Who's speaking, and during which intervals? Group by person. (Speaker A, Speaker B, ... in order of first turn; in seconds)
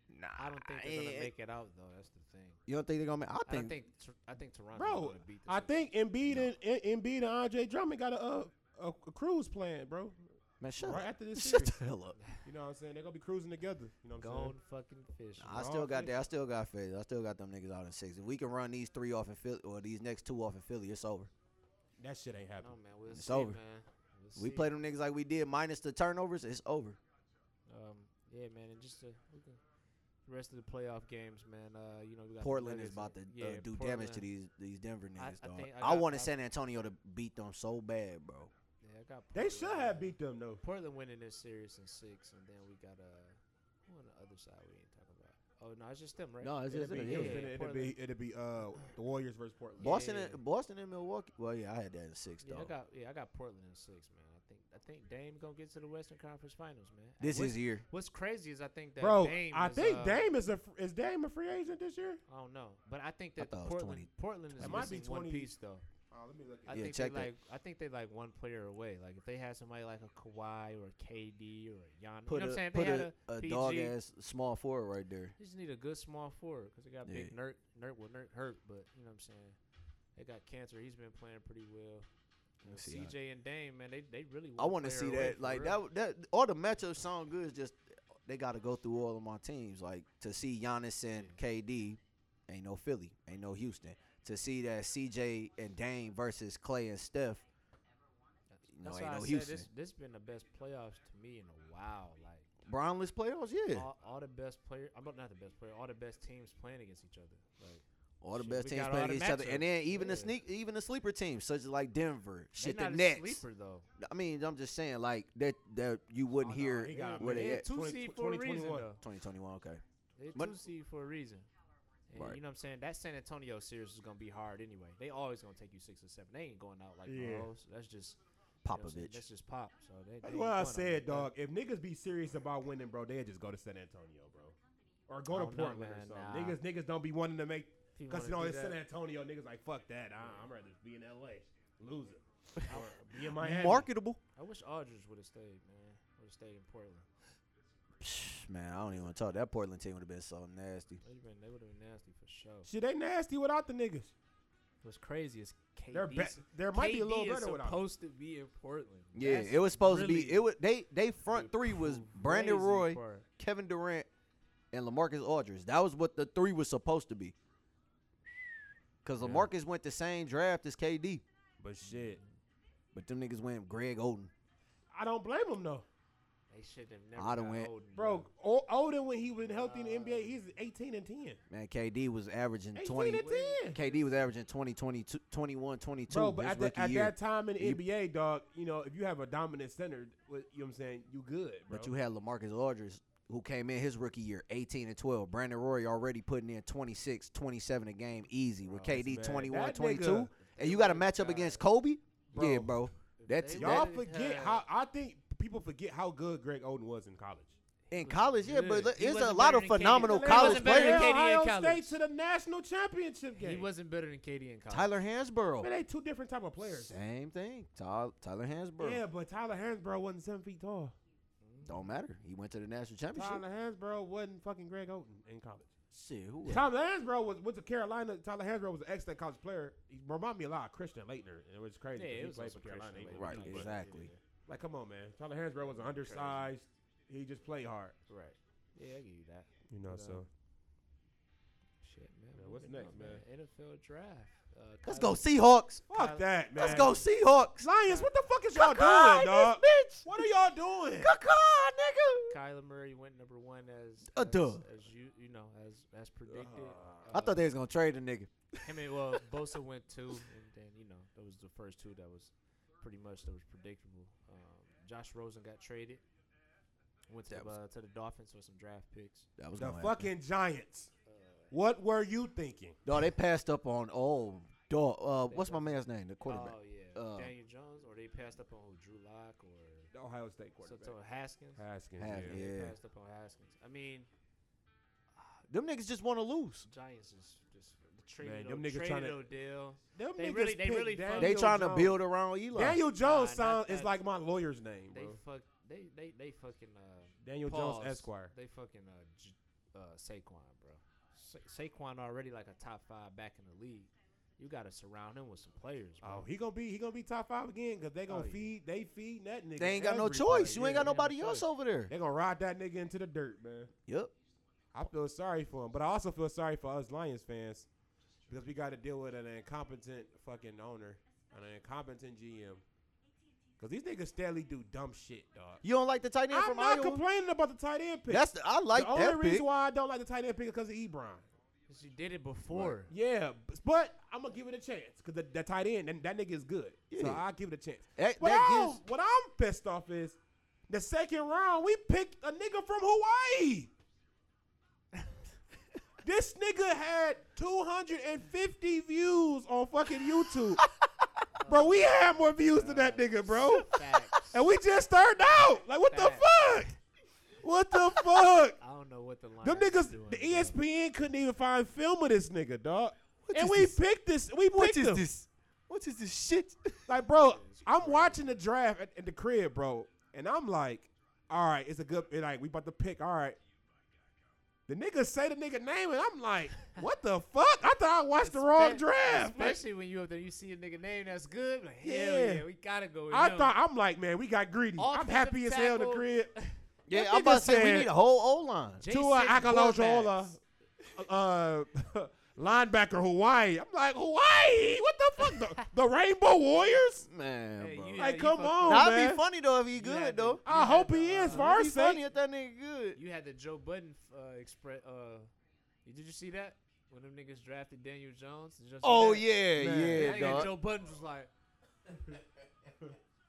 Speaker A: 0.1-1.3, 2.7-3.7, 10.6-12.2, 15.4-21.3, 23.1-23.6, 24.4-27.0, 32.4-38.5, 46.4-47.5, 49.8-52.7, 57.2-57.8, 63.4-65.0, 66.7-67.3, 72.3-75.3, 77.0-77.3, 82.6-83.1, 84.6-97.4, 98.8-99.7, 102.7-103.9, 108.2-113.4, 114.0-117.7, 119.0-119.8, 128.6-129.2, 143.4-144.2, 148.0-151.0, 159.2-164.1, 164.7-167.3, 169.0-171.2, 172.9-174.3, 177.2-177.7, 181.5-187.8, 191.7-203.9, 207.9-211.1, 214.7-215.7, 216.6-219.0, 221.7-223.4, 225.9-226.7, 233.2-234.1, 244.8-245.8, 246.6-247.7, 248.6-250.2, 251.0-252.3, 254.1-254.6, 257.1-258.3, 267.3-267.5, 269.4-270.1, 272.9-277.3, 282.0-282.8, 285.5-286.7, 291.2-292.8, 309.6-311.9, 313.9-314.1, 325.6-327.0, 328.1-329.4, 336.9-337.2, 338.0-338.8, 363.3-363.8, 364.6-366.8, 386.9-388.8, 397.1-398.0, 398.6-400.4, 401.3-403.0, 408.8-410.5
Speaker B: 0.4-2.6, 3.5-5.8, 12.2-12.4, 14.2-15.7, 22.6-24.7, 27.7-29.6, 30.3-34.3, 35.2-36.3, 38.8-48.0, 49.8-50.4, 52.4-60.3, 62.3-65.8, 66.7-74.0, 75.4-79.6, 80.2-82.1, 82.6-85.8, 91.1-91.4, 98.6-102.5, 103.7-110.3, 112.6-113.9, 116.9-119.0, 120.2-121.5, 122.1-128.2, 128.7-131.3, 135.3-136.6, 138.0-138.8, 142.7-142.9, 144.4-147.1, 151.0-152.7, 154.8-160.5, 161.3-163.3, 169.2-169.5, 171.9-172.3, 176.5-178.3, 179.4-180.3, 183.2-184.3, 200.6-201.6, 203.2-204.6, 207.9-212.0, 213.4-215.0, 221.4-222.0, 231.9-234.2, 235.6-236.5, 238.1-240.3, 241.8-245.2, 245.9-246.2, 252.3-257.4, 258.6-266.0, 267.1-269.3, 271.1-271.5, 275.3-279.9, 280.6-281.6, 282.2-284.1, 286.6-291.4, 293.0-294.0, 294.9-306.3, 308.1-308.5, 310.7-311.4, 331.7-332.9, 351.4-354.4, 355.9-356.3, 358.6-360.6, 367.2-368.4, 378.2-383.5, 384.8-386.6, 388.8-390.3, 397.6-398.9, 399.7-401.5, 402.9-405.3, 405.9-409.3, 409.9-411.3
Speaker C: 4.8-10.2, 10.8-11.8, 12.4-14.5, 15.5-16.2, 22.0-22.8, 39.3-40.6, 46.7-50.0, 59.0-62.2, 64.6-65.5, 66.1-66.9, 116.4-118.9, 127.1-127.5, 130.2-134.6, 135.1-143.9, 152.7-154.1, 155.9-157.8, 171.6-172.2, 174.9-175.8, 177.9-181.4, 182.8-183.8, 186.1-191.9, 198.7-201.0, 202.3-202.8, 203.6-207.6, 209.8-213.7, 215.6-217.0, 218.8-220.9, 223.1-225.7, 226.5-233.8, 234.5-237.9, 239.7-240.3, 242.4-243.2, 245.9-247.1, 247.6-251.1, 256.3-257.1, 269.6-270.9, 271.5-272.8, 279.9-280.9, 281.6-282.4, 288.2-289.2, 289.9-292.0, 292.5-295.2, 297.2-298.3, 306.0-311.1, 311.9-313.7, 314.7-317.7, 318.3-322.6, 323.6-325.6, 326.3-331.2, 332.6-340.2, 340.7-343.7, 346.0-350.6, 351.5-356.7, 357.4-358.6, 359.4-365.1, 366.9-373.4, 374.7-379.6, 381.8-382.4, 383.1-386.3, 386.9-387.9, 388.9-390.4, 390.9-397.1, 398.0-399.2, 400.4-402.0, 409.6-410.5